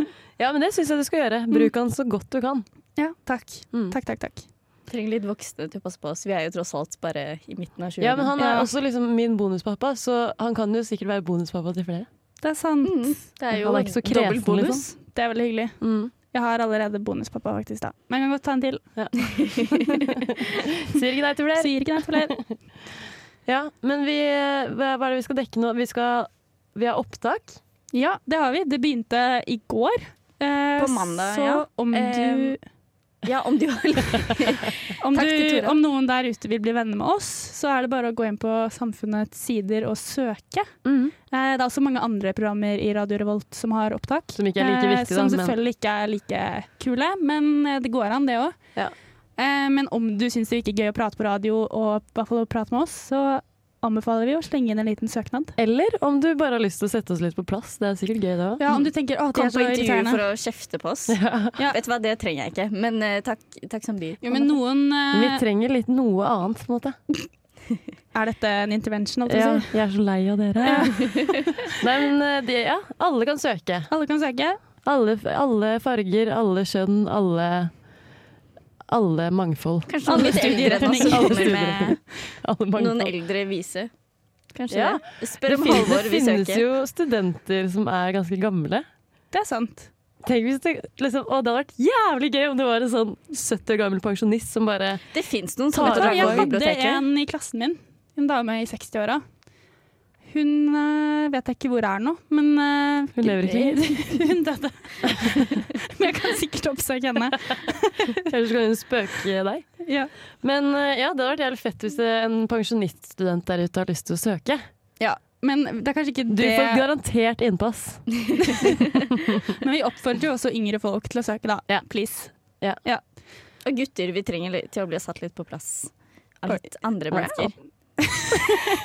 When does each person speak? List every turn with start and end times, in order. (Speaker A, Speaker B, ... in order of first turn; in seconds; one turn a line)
Speaker A: 0.4-2.6
Speaker B: 3.0-4.4
Speaker C: 4.9-8.3
Speaker A: 8.0-12.1
Speaker B: 8.4-8.7
Speaker B: 12.4-13.3
Speaker C: 12.8-14.9
Speaker A: 13.6-14.8
Speaker B: 15.0-19.0
Speaker A: 15.8-16.1
Speaker A: 18.9-19.6
Speaker A: 20.9-22.2
Speaker B: 21.6-22.5
Speaker A: 23.4-27.6
Speaker B: 27.9-32.6
Speaker C: 30.8-32.6
Speaker C: 33.2-35.8
Speaker B: 35.0-40.8
Speaker A: 40.8-41.1
Speaker B: 41.3-55.5
Speaker A: 44.3-45.5
Speaker A: 55.6-58.6
Speaker B: 58.6-60.2
Speaker C: 58.7-64.5
Speaker A: 61.1-61.5
Speaker B: 64.2-65.4
Speaker A: 65.1-67.0
Speaker B: 68.1-69.8
Speaker A: 69.2-73.9
Speaker B: 70.6-71.6
Speaker B: 73.9-74.6
Speaker A: 74.8-77.8
Speaker A: 78.9-83.1
Speaker C: 79.9-82.1
Speaker B: 80.1-81.6
Speaker C: 82.7-83.9
Speaker C: 84.5-86.6
Speaker A: 84.7-88.9
Speaker B: 89.3-89.9
Speaker A: 90.2-95.0
Speaker C: 95.1-97.0
Speaker A: 95.7-96.5
Speaker B: 95.8-99.2
Speaker B: 100.2-108.2
Speaker A: 103.2-103.9
Speaker A: 108.2-114.6
Speaker B: 109.8-110.1
Speaker B: 115.0-116.8
Speaker A: 116.3-118.5
Speaker B: 119.6-123.0
Speaker A: 121.7-122.8
Speaker C: 123.6-127.5
Speaker A: 127.1-127.5